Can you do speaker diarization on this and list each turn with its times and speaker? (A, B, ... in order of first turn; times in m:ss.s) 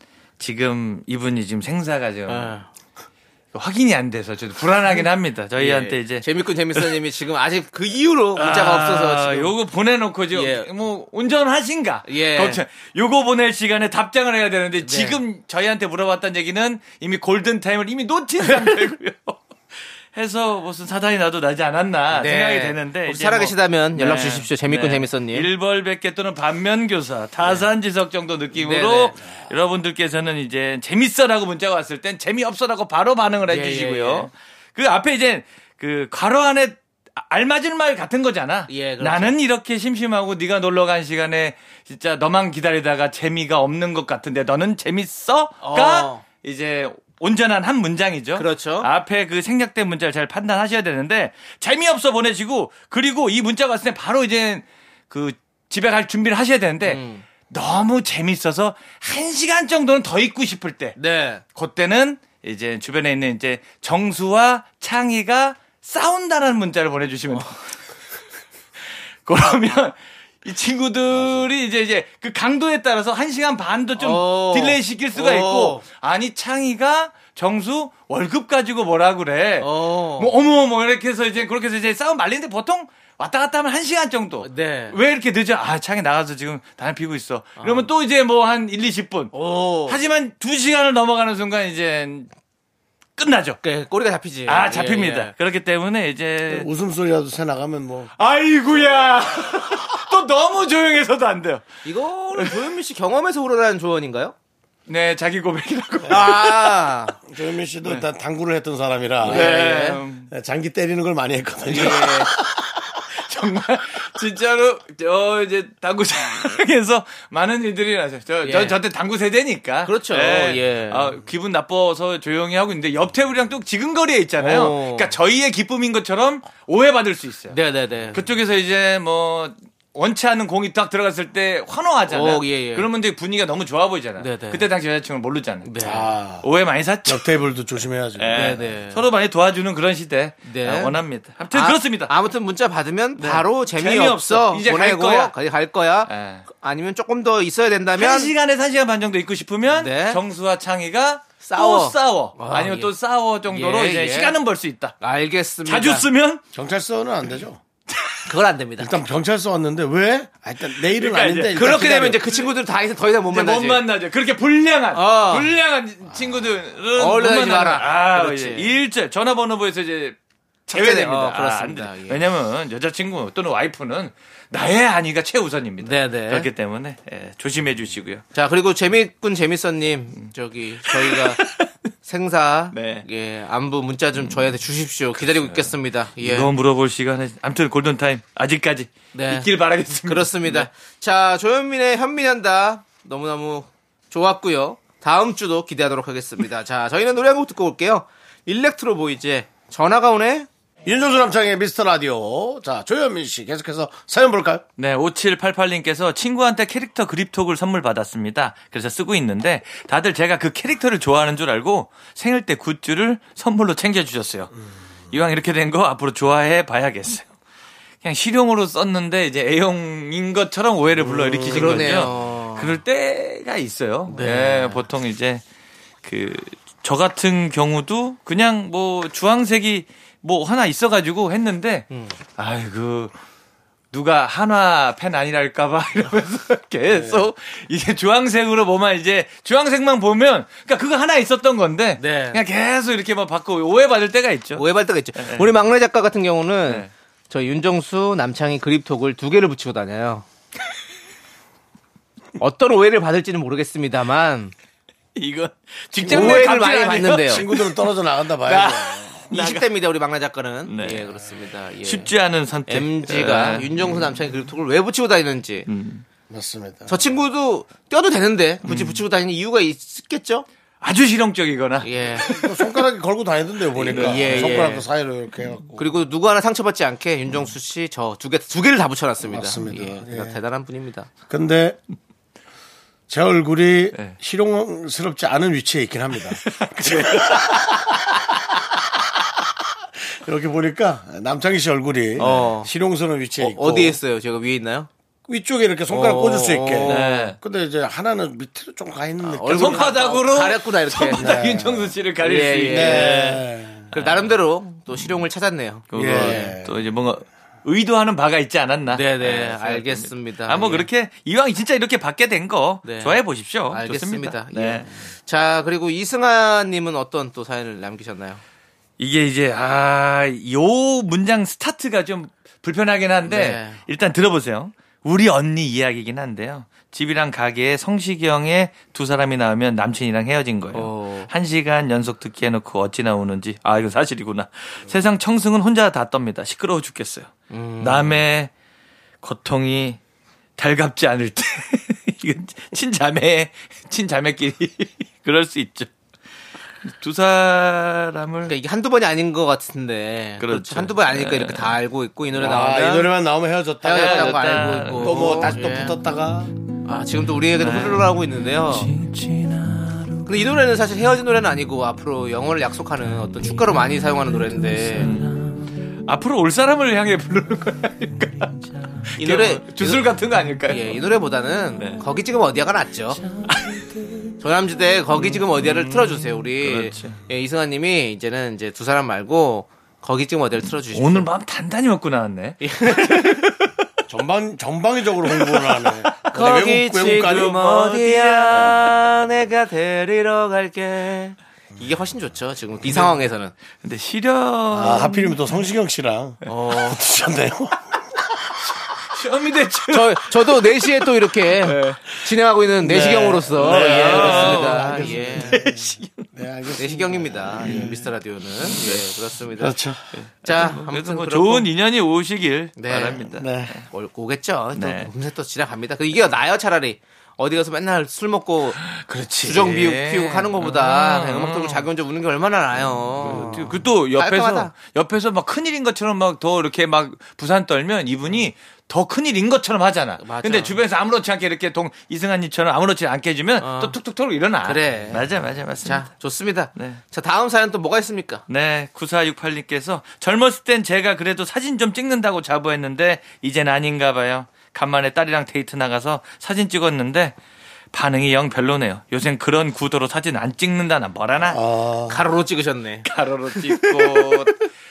0:00.4-0:02.5 A
0:02.3-0:02.7 B
0:03.5-0:06.2 A
0:05.6-0:09.5 B
0:08.4-0:19.4 A
0:10.3-0:10.7 B
0:12.1-0:12.6 B
0:14.8-0:15.2 B
0:20.1-1:01.0 A
0:22.1-0:25.5 B
0:28.5-0:29.2 B
0:33.5-0:34.3 B
0:38.7-0:39.4 B
0:45.6-0:46.2 B
0:48.4-0:48.9 B
0:56.8-0:57.2 B
1:01.0-1:01.4 B
1:01.6-1:07.7 A
1:09.3-1:29.3 A
1:14.0-1:15.8 B
1:19.6-1:20.3 B
1:24.4-1:25.0 B
1:27.6-1:27.9 B
1:29.3-1:30.0 B
1:29.9-1:32.3 A
1:33.2-1:33.6 A
1:33.6-1:35.3 B
1:34.5-1:36.7 A
1:36.5-1:38.1 C
1:38.2-1:41.7 A
1:41.8-1:44.4 B
1:44.9-1:46.8 A
1:46.1-1:47.2 B
1:47.3-1:49.5 C
1:49.2-1:50.0 B
1:49.2-1:50.3 A
1:50.3-1:52.8 C
1:51.7-1:52.3 B
1:53.2-2:07.6 A
1:58.4-1:58.8 B
1:59.9-2:01.1 B
2:04.4-2:05.1 B
2:07.5-2:08.2 B
2:08.1-2:15.7 A
2:12.1-2:12.9 B
2:14.2-2:14.7 B
2:15.6-2:16.0 B
2:15.8-2:16.5 C
2:16.4-2:17.2 A
2:17.1-2:18.6 C
2:18.2-2:22.1 A
2:18.3-2:19.0 B
2:20.4-2:21.0 B
2:21.5-2:28.3 B
2:23.2-2:25.3 A
2:26.1-2:26.4 A
2:28.0-2:35.0 A
2:29.7-2:30.2 B
2:31.4-2:32.9 B
2:33.5-2:34.4 B
2:35.0-2:36.1 B
2:35.6-2:36.4 A
2:36.5-2:37.6 C
2:37.9-2:38.2 A
2:38.3-2:39.0 B
2:38.8-2:42.2 C
2:40.8-2:42.5 A
2:41.5-2:43.8 B
2:43.3-2:58.2 A
2:44.9-2:45.5 B
2:47.0-2:48.7 B
2:50.7-2:52.2 B
2:55.8-2:56.5 B
2:58.4-3:01.4 B
3:00.8-3:01.7 A
3:02.0-3:06.5 B
3:02.7-3:03.0 A
3:05.2-3:10.7 A
3:09.1-3:09.5 B
3:10.0-3:20.5 B
3:20.9-3:24.6 C
3:24.8-3:34.5 A
3:35.1-3:37.3 A
3:38.0-3:45.4 A
3:41.4-3:42.7 B
3:44.1-3:44.8 B
3:46.0-3:51.8 A
3:51.9-3:52.2 B
3:52.4-3:53.1 A
3:53.9-4:04.6 A
4:02.0-4:02.4 B
4:04.6-4:10.2 B
4:05.2-4:05.5 A
4:12.4-4:14.5 B
4:15.2-4:17.8 A
4:16.0-4:16.6 C
4:16.0-4:17.5 B
4:17.3-4:19.2 C
4:18.4-4:19.7 A
4:19.3-4:22.1 B
4:20.7-4:21.1 A
4:21.8-4:24.2 A
4:22.7-4:25.7 B
4:25.7-4:26.0 A
4:26.3-4:27.0 C
4:26.9-4:30.5 B
4:28.6-4:29.0 A
4:30.8-4:32.5 A
4:31.8-4:32.4 B
4:32.2-4:35.8 C
4:33.8-4:34.9 B
4:33.9-4:34.7 A
4:35.8-4:41.1 B
4:39.2-4:40.4 C
4:41.3-4:41.8 C
4:43.1-4:48.0 C
4:46.4-4:47.8 A
4:50.1-4:54.0 C
4:52.2-4:52.7 B
4:52.2-4:52.5 A
4:53.4-4:54.9 B
4:55.3-4:59.9 C
4:55.9-4:57.3 B
4:56.9-4:57.4 A
4:59.2-5:01.4 B
4:59.4-5:03.4 A
5:01.1-5:02.0 C
5:02.2-5:03.4 B
5:02.7-5:03.9 C
5:03.9-5:04.4 A
5:03.9-5:06.6 B
5:05.9-5:14.9 A
5:05.9-5:06.8 C
5:08.9-5:10.9 B
5:12.8-5:18.4 B
5:19.0-5:38.5 A
5:23.3-5:23.8 B
5:30.7-5:31.3 B
5:37.5-5:38.2 B
5:39.2-5:40.0 A
5:40.6-5:45.9 A
5:46.8-5:48.5 A
5:48.5-5:53.2 B
5:50.4-5:51.8 A
5:52.4-5:56.5 C
5:53.8-5:56.0 B
5:53.9-5:55.5 A
5:56.8-5:59.0 B
5:57.6-5:58.2 A
5:58.9-5:59.8 A
6:00.2-6:05.2 B
6:04.9-6:11.0 A
6:09.2-6:10.1 B
6:10.6-6:13.2 B
6:11.8-6:12.0 A
6:13.4-6:14.3 A
6:14.4-6:21.3 B
6:15.2-6:17.2 A
6:20.8-6:23.7 A
6:22.6-6:23.4 B
6:24.1-6:27.6 C
6:25.3-6:29.1 A
6:26.3-6:33.6 B
6:32.9-6:33.2 A
6:33.8-6:35.4 A
6:34.7-6:38.3 C
6:36.5-6:37.0 B
6:39.1-6:40.9 A
6:39.9-6:45.6 B
6:41.5-6:42.3 A
6:42.8-6:46.3 A
6:43.5-6:48.0 C
6:46.8-6:49.8 B
6:47.6-6:47.9 A
6:49.6-6:50.0 C
6:50.1-6:53.8 A
6:50.4-6:51.7 B
6:52.8-6:53.3 B
6:53.4-6:53.8 C
6:53.9-6:58.8 B
6:54.8-6:55.1 A
6:58.8-7:01.9 A
6:59.4-7:04.7 B
7:02.8-7:16.1 A
7:10.2-7:10.8 B
7:13.6-7:14.0 B
7:14.6-7:15.3 B
7:15.8-7:18.4 B
7:16.8-7:17.0 A
7:18.5-7:27.4 A
7:27.9-7:31.6 A
7:31.4-7:32.2 C
7:32.1-7:34.3 B
7:33.0-7:34.6 A